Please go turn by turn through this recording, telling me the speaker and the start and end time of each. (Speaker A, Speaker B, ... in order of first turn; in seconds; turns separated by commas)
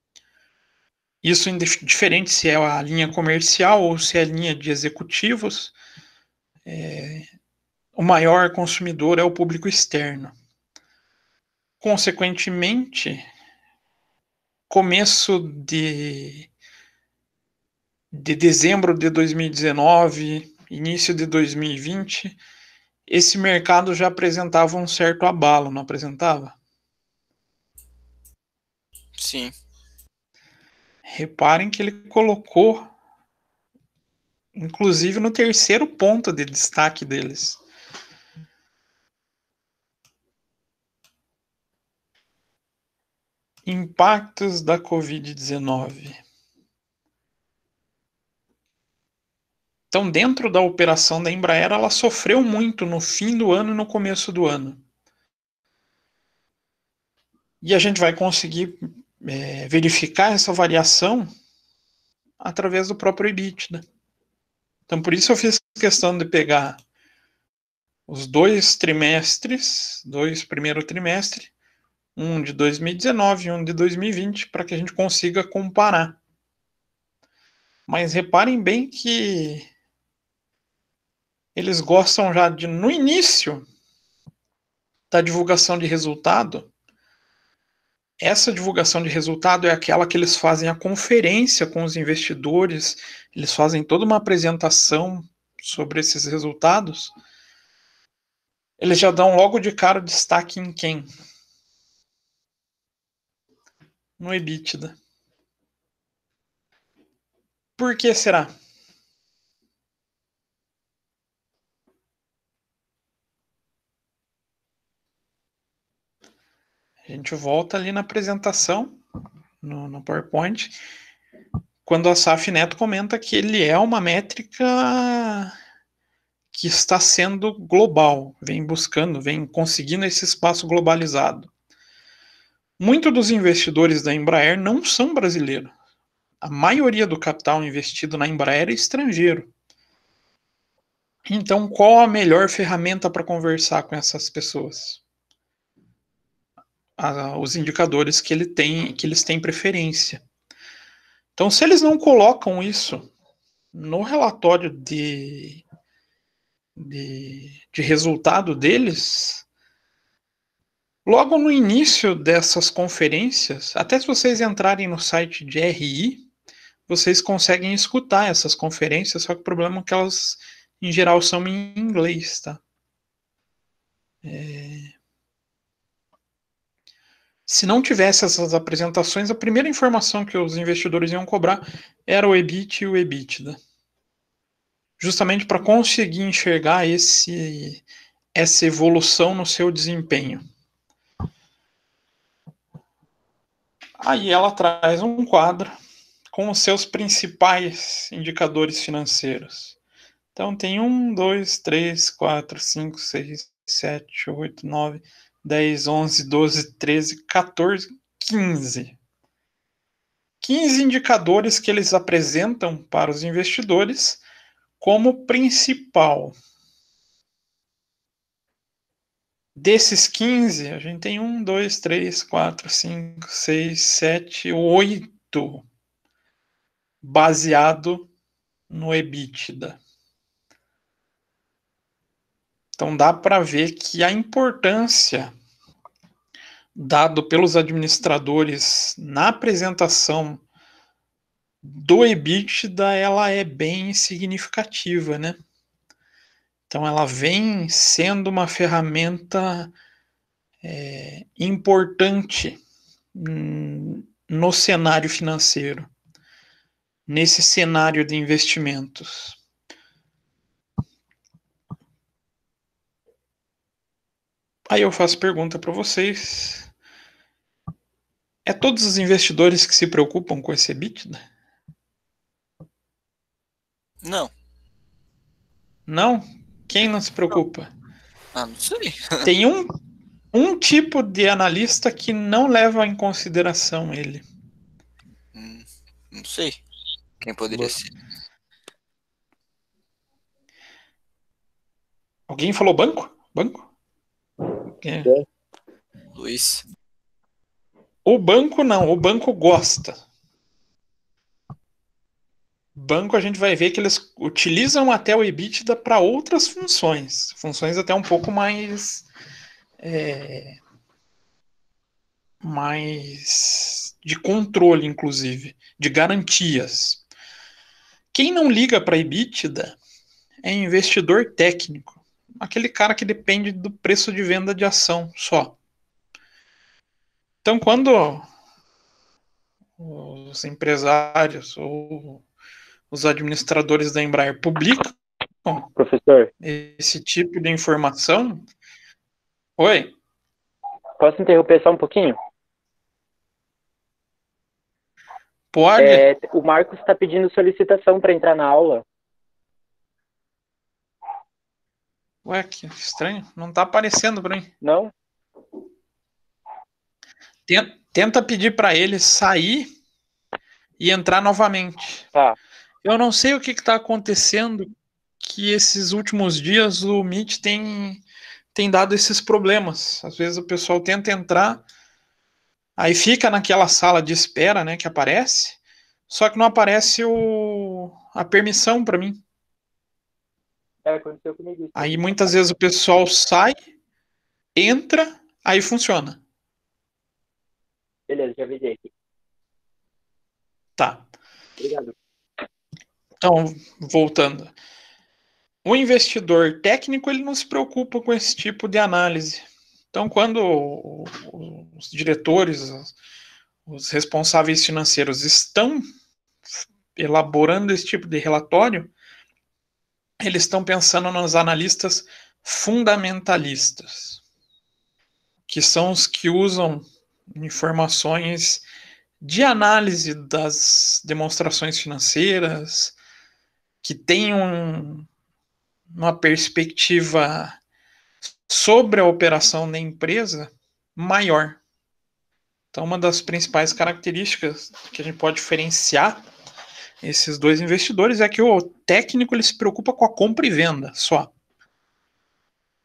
Speaker A: 1.2-5.7, Speaker A: 6.7-7.3, Speaker A: 8.0-10.3, Speaker A: 11.8-13.2, Speaker A: 14.7-16.5, Speaker A: 18.1-22.4, Speaker A: 23.1-26.6, Speaker B: 29.2-29.5, Speaker A: 31.1-32.9, Speaker A: 34.5-37.6, Speaker A: 43.6-46.2, Speaker A: 49.9-54.8, Speaker A: 57.6-61.3, Speaker A: 62.4-63.8, Speaker A: 64.9-66.8, Speaker A: 68.1-71.5, Speaker A: 72.2-76.2, Speaker A: 77.9-79.7, Speaker A: 81.5-83.6, Speaker A: 85.1-86.7, Speaker A: 88.2-97.1, Speaker A: 98.8-101.1, Speaker A: 104.2-104.9, Speaker A: 107.8-108.5, Speaker A: 117.1-119.0, Speaker A: 119.6-120.8, Speaker A: 121.8-125.5, Speaker A: 126.5-131.5, Speaker A: 132.8-135.7, Speaker A: 136.4-139.5, Speaker A: 141.3-145.0, Speaker A: 147.0-150.2, Speaker A: 151.3-153.1, Speaker A: 153.7-155.6, Speaker A: 156.8-159.4, Speaker A: 161.1-166.2, Speaker A: 166.9-172.6, Speaker A: 174.2-174.9, Speaker A: 177.5-183.6, Speaker A: 185.0-187.8, Speaker A: 188.3-190.4, Speaker A: 194.0-195.7, Speaker A: 196.3-199.8, Speaker A: 200.3-208.9, Speaker A: 210.4-214.2, Speaker A: 214.8-216.3, Speaker A: 219.6-225.6, Speaker A: 227.0-228.1, Speaker A: 228.7-229.8, Speaker A: 232.8-235.3, Speaker A: 236.7-240.4, Speaker A: 241.6-245.4, Speaker A: 246.7-249.7, Speaker A: 250.6-252.6, Speaker A: 253.1-255.9, Speaker A: 257.1-259.4, Speaker A: 264.7-266.7, Speaker A: 268.4-271.2, Speaker B: 274.0-274.3, Speaker A: 275.9-277.7, Speaker B: 278.3-279.3, Speaker A: 279.2-279.7, Speaker A: 280.3-284.2, Speaker B: 285.3-286.6, Speaker B: 287.2-287.9, Speaker A: 292.3-293.7, Speaker A: 294.8-295.1, Speaker B: 296.1-296.6, Speaker A: 298.0-300.0, Speaker A: 302.7-309.1, Speaker A: 309.8-310.6, Speaker A: 312.4-317.0, Speaker A: 318.1-319.8, Speaker A: 320.4-325.6, Speaker A: 327.4-328.2, Speaker A: 329.8-332.2, Speaker A: 332.9-334.9, Speaker C: 335.8-336.3, Speaker A: 336.4-338.4, Speaker A: 339.6-339.9, Speaker C: 341.0-342.2, Speaker A: 345.5-346.0, Speaker C: 345.8-348.8, Speaker A: 352.2-354.5, Speaker C: 354.6-354.9, Speaker A: 357.5-359.7, Speaker A: 360.8-362.1, Speaker A: 362.8-364.7, Speaker A: 365.2-368.0, Speaker A: 368.5-371.6, Speaker A: 372.8-379.2, Speaker C: 380.8-381.9, Speaker A: 381.8-383.5, Speaker A: 384.5-386.2, Speaker C: 388.1-388.9, Speaker A: 390.8-391.1, Speaker C: 391.6-391.9, Speaker A: 393.2-394.5, Speaker A: 395.6-402.9, Speaker A: 403.7-405.9, Speaker A: 406.9-408.9, Speaker A: 410.2-414.2, Speaker A: 415.5-418.6, Speaker A: 419.2-423.0, Speaker A: 423.8-425.1, Speaker A: 425.9-427.6, Speaker A: 428.5-431.6, Speaker A: 432.7-436.2, Speaker A: 437.0-441.3